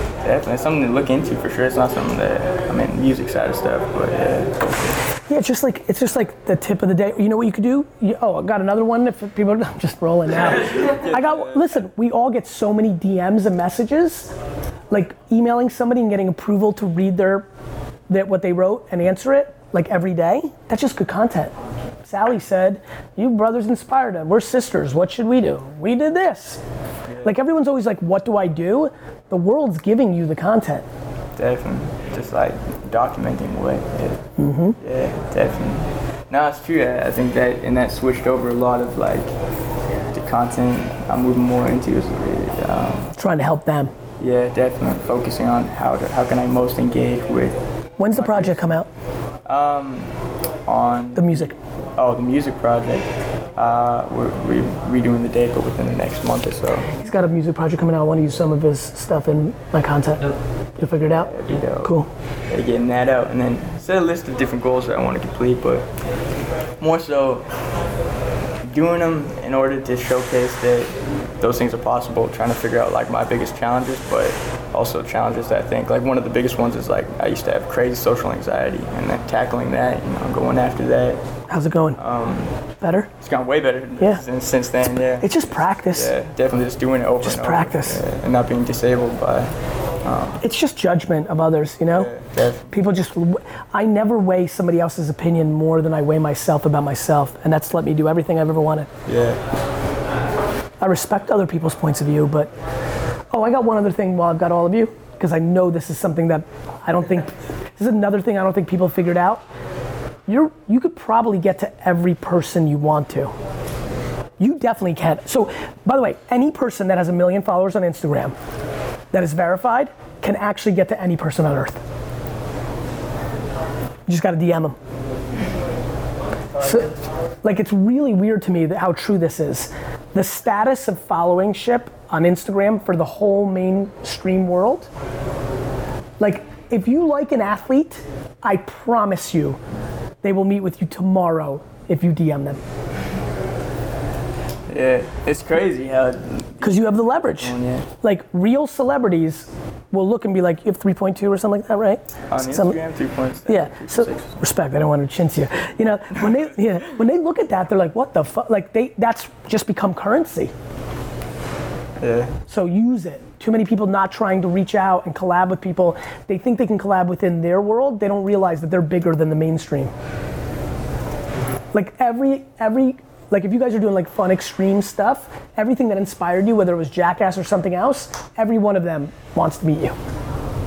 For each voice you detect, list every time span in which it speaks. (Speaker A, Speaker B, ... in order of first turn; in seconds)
Speaker A: 0.2-5.0, 10.3-11.8, 27.1-27.4, 31.4-39.3, 40.1-43.1, 44.2-47.6, 48.1-48.8, 49.5-50.1, 50.7-56.9, 61.1-62.0, 62.5-65.9, 66.8-67.5, 68.7-81.2, 82.0-82.5, 83.2-89.5, 90.0-90.4, 91.9-92.7, 99.1-99.4, 144.7-147.9, 152.3-154.4, 162.0-162.3
Speaker B: 5.3-14.3, 14.9-17.5, 18.1-21.5, 22.0-26.6, 27.2-30.9, 34.4-34.8, 43.2-43.9, 48.0-48.9, 51.1-51.5, 57.0-62.1, 81.5-82.0, 82.8-83.1, 85.2-86.1, 87.2-88.0, 90.4-92.1, 92.7-98.9, 100.8-102.5, 103.3-109.4, 110.3-113.3, 114.4-118.3, 119.1-121.8, 124.1-124.8, 126.6-126.9, 127.4-134.9, 136.2-139.6, 140.2-142.6, 146.6-152.8, 153.5-160.5, 162.5-169.9, 171.7-179.9